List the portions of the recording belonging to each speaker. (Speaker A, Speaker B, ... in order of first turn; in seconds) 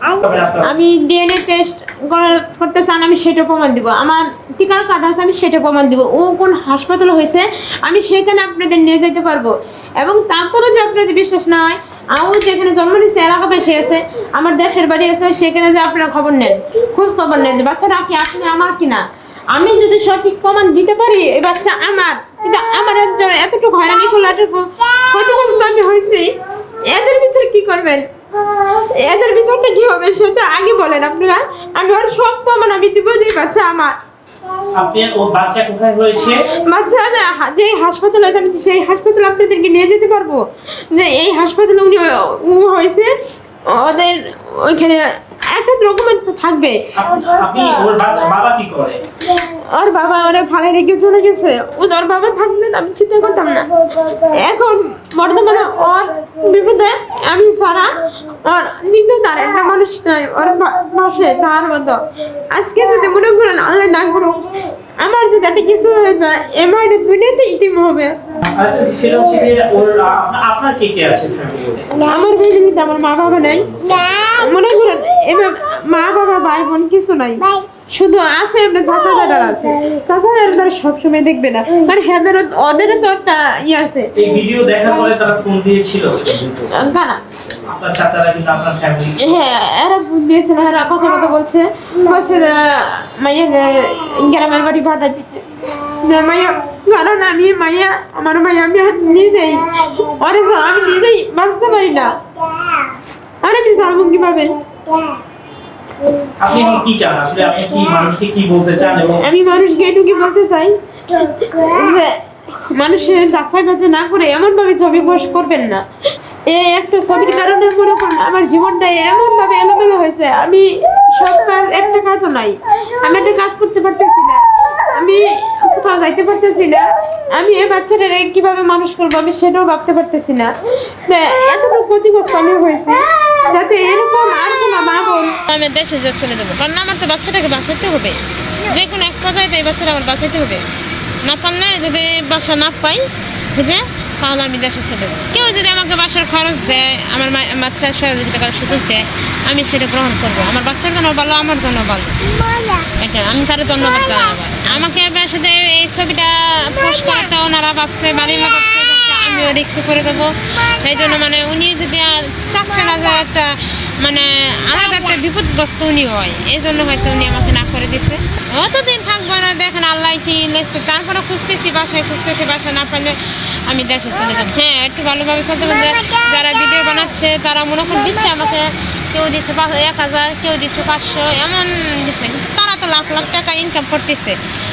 Speaker A: 0.1-0.7, 34.7-36.4, 47.0-49.0, 68.4-72.0, 73.5-74.0, 84.2-86.9, 87.6-89.3, 106.4-109.2
Speaker B: 0.6-26.3, 26.9-28.0, 28.7-33.9, 36.6-43.1, 43.7-46.8, 49.3-57.9, 58.4-62.0, 62.5-68.3, 72.0-84.1, 86.7-87.2, 89.2-102.2, 103.4-104.6, 109.2-112.2, 112.7-115.8, 116.5-130.5, 131.0-140.6, 141.2-152.2, 152.8-184.4